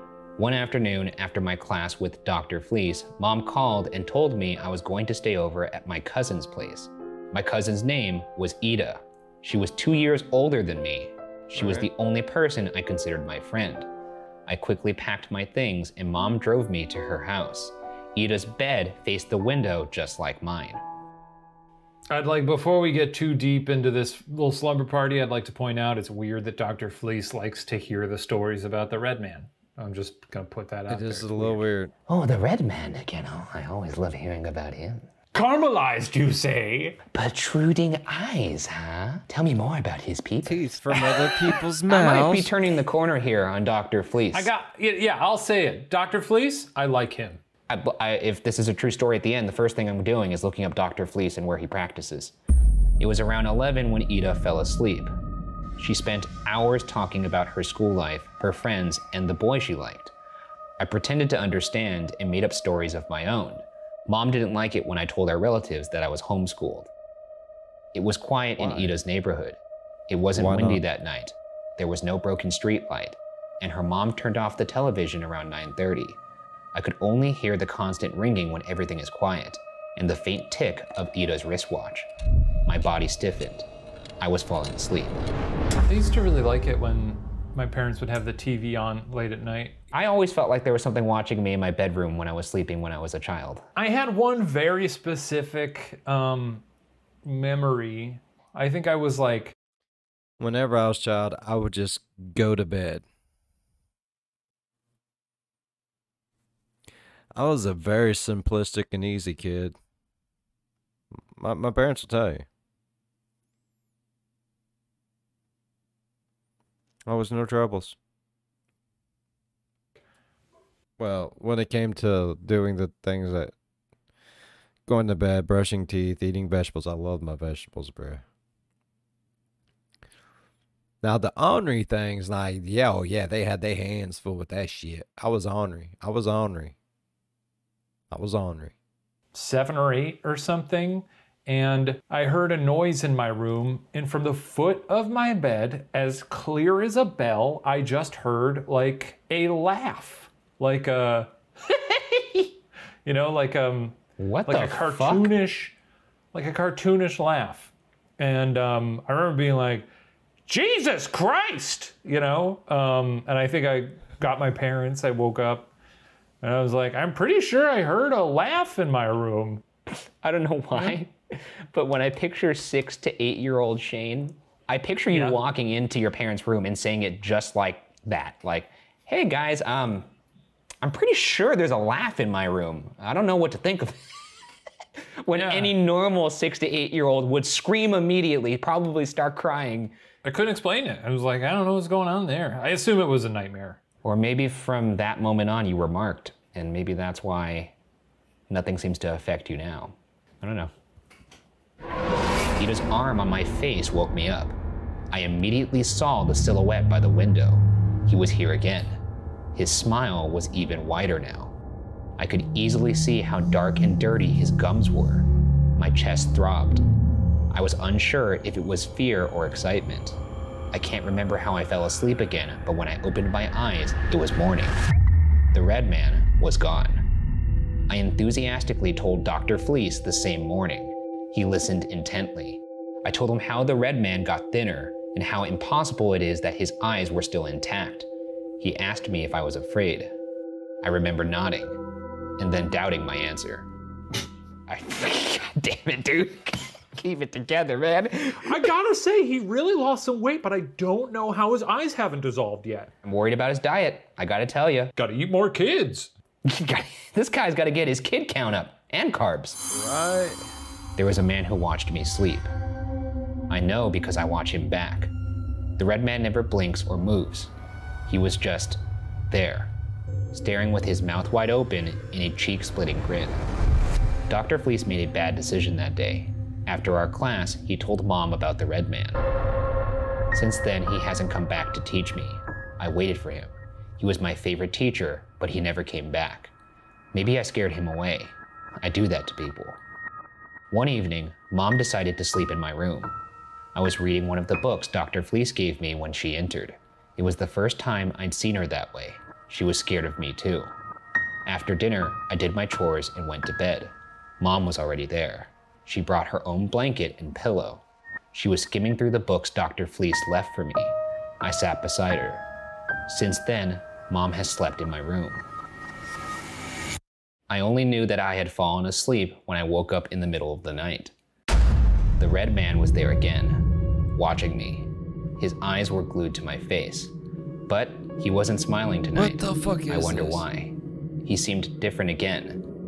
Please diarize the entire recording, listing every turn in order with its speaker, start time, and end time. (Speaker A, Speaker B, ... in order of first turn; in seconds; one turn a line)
Speaker A: 0.4-13.9
Speaker A: 14.5-20.8
Speaker B: 22.1-31.6
Speaker C: 30.9-31.9
Speaker A: 32.1-35.1
Speaker B: 35.3-37.0
Speaker A: 37.1-40.6
Speaker C: 40.4-42.5
Speaker B: 40.9-41.5
Speaker A: 41.9-44.5
Speaker B: 44.3-47.4
Speaker A: 47.7-52.3
Speaker A: 53.0-55.1
Speaker A: 55.8-60.1
Speaker A: 60.8-66.9
Speaker A: 67.9-76.2
Speaker C: 68.6-68.9
Speaker C: 70.3-70.8
Speaker A: 76.7-82.1
Speaker A: 82.7-83.7
Speaker A: 84.2-85.3
Speaker B: 85.8-89.8
Speaker A: 89.9-93.7
Speaker B: 93.8-96.6
Speaker B: 97.2-99.5
Speaker C: 100.4-103.0
Speaker C: 107.3-109.8
Speaker C: 111.3-112.5
Speaker C: 117.1-118.0
Speaker C: 121.0-123.5
Speaker C: 124.8-128.2
Speaker C: 131.0-136.7
Speaker C: 138.1-138.7
Speaker B: 139.3-152.4
Speaker B: 153.0-155.7
Speaker A: 154.2-155.3
Speaker B: 156.3-159.8
Speaker B: 160.5-165.7
Speaker B: 166.4-169.6
Speaker A: 170.2-180.1
Speaker B: 175.1-175.4
Speaker A: 180.8-184.0
Speaker A: 185.2-189.9
Speaker B: 185.3-185.7
Speaker B: 190.2-193.8
Speaker A: 194.0-197.7
Speaker A: 198.5-200.7
Speaker A: 202.6-204.6
Speaker A: 205.1-209.0
Speaker A: 209.5-211.5
Speaker A: 212.2-216.8
Speaker A: 217.5-220.2
Speaker A: 220.7-224.8
Speaker A: 225.5-227.0
Speaker A: 227.9-238.1
Speaker A: 238.6-240.1
Speaker A: 240.8-241.8
Speaker A: 242.4-243.7
Speaker A: 244.7-248.6
Speaker B: 248.4-252.9
Speaker A: 253.0-254.9
Speaker B: 254.9-256.1
Speaker A: 256.4-259.6
Speaker C: 259.7-260.4
Speaker A: 261.0-262.5
Speaker A: 263.5-265.1
Speaker A: 265.8-267.5
Speaker A: 268.1-269.7
Speaker A: 270.3-273.5
Speaker A: 274.3-279.2
Speaker A: 280.3-286.5
Speaker A: 287.1-289.8
Speaker A: 290.7-293.1
Speaker A: 293.7-300.7
Speaker A: 301.4-312.4
Speaker A: 313.1-315.4
Speaker A: 317.5-321.1
Speaker A: 322.2-323.6
Speaker A: 324.1-327.1
Speaker A: 327.7-332.6
Speaker C: 329.1-330.4